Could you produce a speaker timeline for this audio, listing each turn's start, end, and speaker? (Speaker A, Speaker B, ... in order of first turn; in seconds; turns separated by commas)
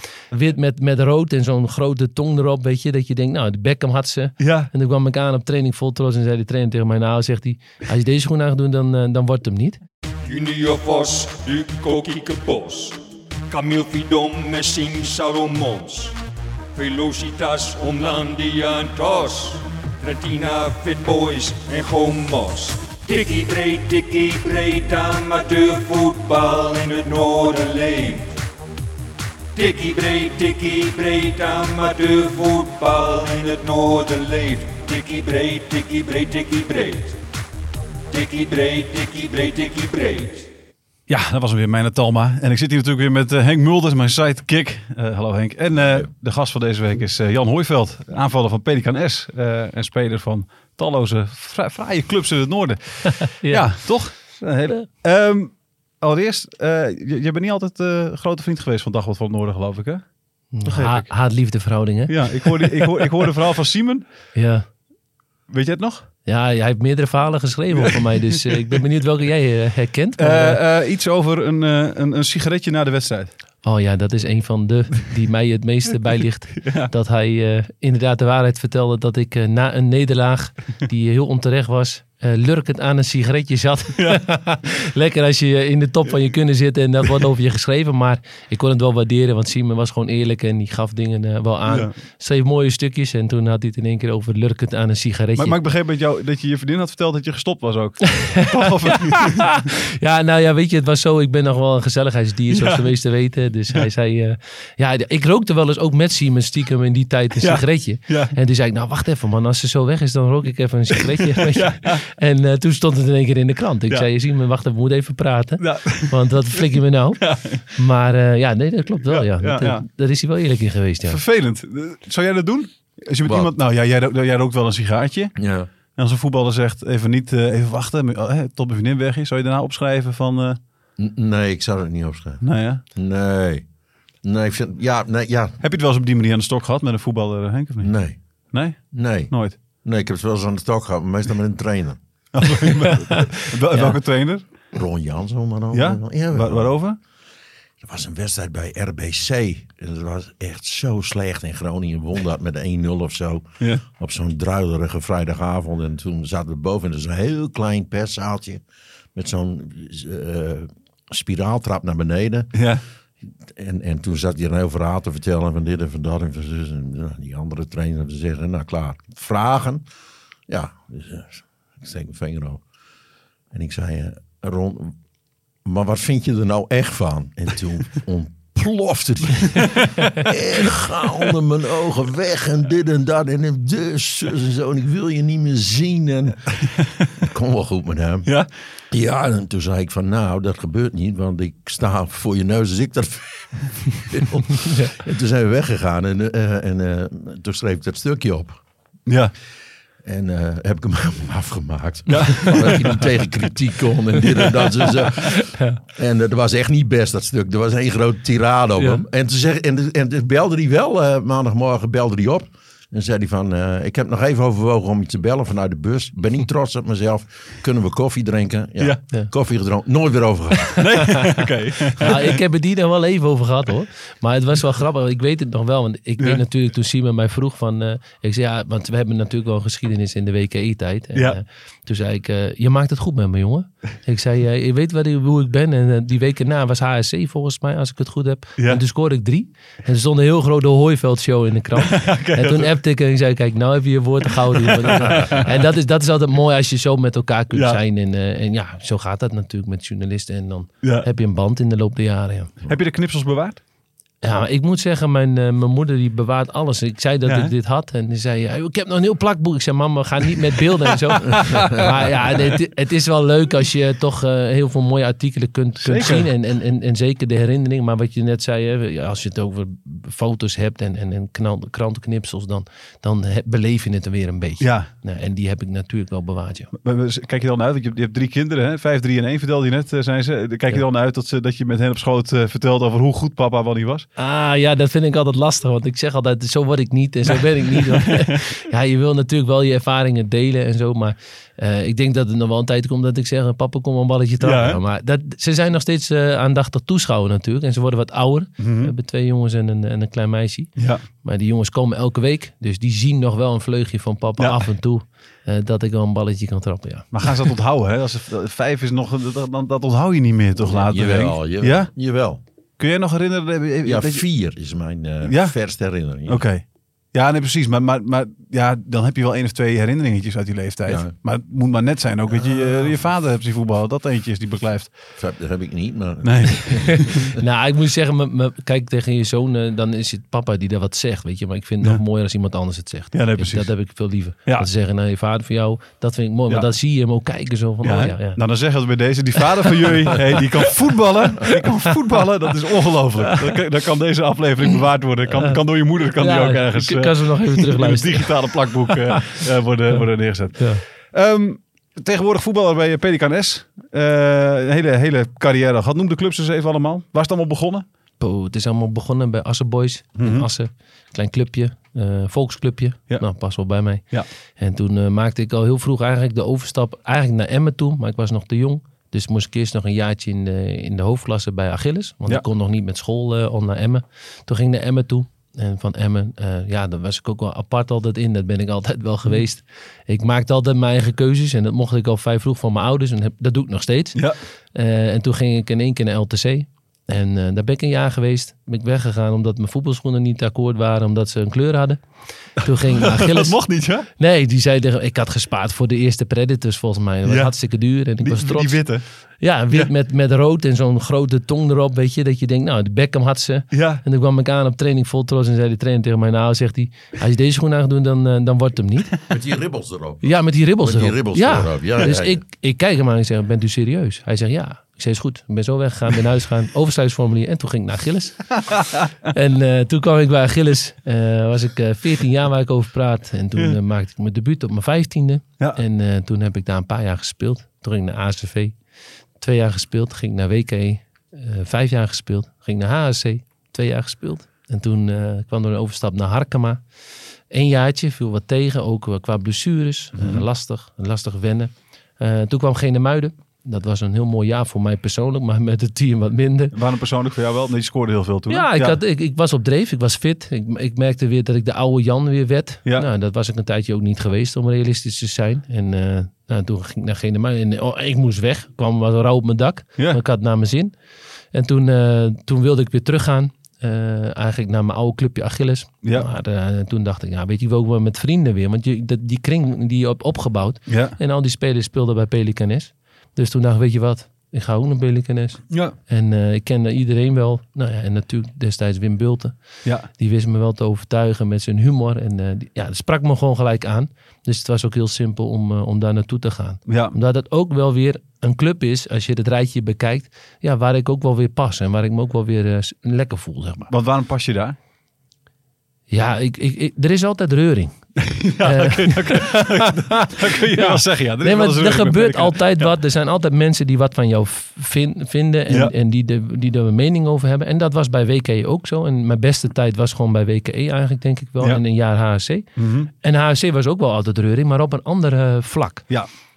Speaker A: 0.3-9.8, Speaker B: 4.4-4.7, Speaker C: 10.2-16.2, Speaker C: 16.8-28.4, Speaker C: 29.6-37.2, Speaker C: 38.1-40.5, Speaker B: 41.1-60.1, Speaker D: 45.8-46.1, Speaker A: 53.4-54.9, Speaker A: 60.5-63.3, Speaker B: 60.6-61.1, Speaker B: 62.1-64.0, Speaker A: 64.3-64.7, Speaker B: 65.5-66.1, Speaker A: 66.3-70.6, Speaker B: 70.2-73.3, Speaker A: 73.6-95.6, Speaker B: 76.6-76.9, Speaker B: 84.0-84.2, Speaker B: 91.7-91.9, Speaker B: 95.4-99.7, Speaker A: 98.9-99.4, Speaker A: 100.0-121.2, Speaker B: 102.5-102.9, Speaker B: 107.4-108.3, Speaker B: 111.5-112.0, Speaker B: 115.6-116.6, Speaker B: 117.2-117.6, Speaker B: 119.0-119.8, Speaker B: 121.1-125.4, Speaker D: 123.2-123.5, Speaker D: 125.4-125.7, Speaker B: 126.0-130.6, Speaker D: 131.0-133.7, Speaker B: 132.4-132.8, Speaker D: 134.2-135.6, Speaker B: 135.6-137.9, Speaker D: 137.8-142.5, Speaker B: 138.5-139.6, Speaker B: 142.3-144.4, Speaker D: 144.7-146.8, Speaker B: 145.7-147.0, Speaker D: 147.8-158.6, Speaker D: 159.2-162.7, Speaker B: 162.6-162.8, Speaker D: 163.5-169.8, Speaker D: 170.5-172.6, Speaker D: 173.5-175.0, Speaker D: 175.7-186.5, Speaker B: 179.6-179.8, Speaker D: 187.2-188.3, Speaker D: 188.9-198.6, Speaker B: 199.1-199.3, Speaker D: 200.0-221.1, Speaker B: 202.1-203.0, Speaker A: 205.5-205.8, Speaker B: 220.8-222.4, Speaker A: 222.0-252.5, Speaker B: 241.8-242.7, Speaker B: 244.5-245.5, Speaker B: 247.5-247.8, Speaker B: 252.7-253.6, Speaker A: 254.2-276.7, Speaker B: 257.3-257.5, Speaker B: 261.3-262.3, Speaker D: 261.3-261.8, Speaker B: 265.8-266.3, Speaker B: 274.6-274.9, Speaker B: 276.8-284.1, Speaker A: 284.2-307.1, Speaker B: 287.8-288.4, Speaker B: 294.4-294.8, Speaker B: 298.6-298.9, Speaker B: 300.8-301.0, Speaker B: 304.4-304.6, Speaker B: 307.1-311.9, Speaker D: 310.6-312.4, Speaker B: 312.8-314.2, Speaker D: 313.8-316.5, Speaker B: 315.2-315.6, Speaker B: 316.2-324.9, Speaker D: 320.9-321.1, Speaker D: 322.3-323.1, Speaker D: 325.2-327.4, Speaker B: 326.2-327.2, Speaker A: 327.3-338.4, Speaker B: 333.1-334.7, Speaker B: 337.8-357.9, Speaker A: 345.3-345.6, Speaker A: 346.2-349.4, Speaker A: 350.6-350.8, Speaker A: 358.2-409.2, Speaker B: 360.2-360.5, Speaker B: 364.0-364.3, Speaker B: 392.9-394.1, Speaker B: 397.3-397.5, Speaker B: 398.2-399.0, Speaker B: 403.7-404.0, Speaker D: 409.3-412.4, Speaker A: 410.2-418.6, Speaker A: 419.3-428.8, Speaker A: 429.4-436.8, Speaker A: 437.5-446.7, Speaker B: 440.1-440.5, Speaker B: 446.7-449.0, Speaker A: 448.5-460.9, Speaker A: 461.5-493.9, Speaker B: 470.9-471.2, Speaker B: 475.7-475.9, Speaker B: 486.9-487.1, Speaker B: 493.9-494.8, Speaker A: 496.1-498.0, Speaker B: 498.2-502.9, Speaker A: 498.6-512.7, Speaker B: 512.8-513.1, Speaker A: 513.2-516.1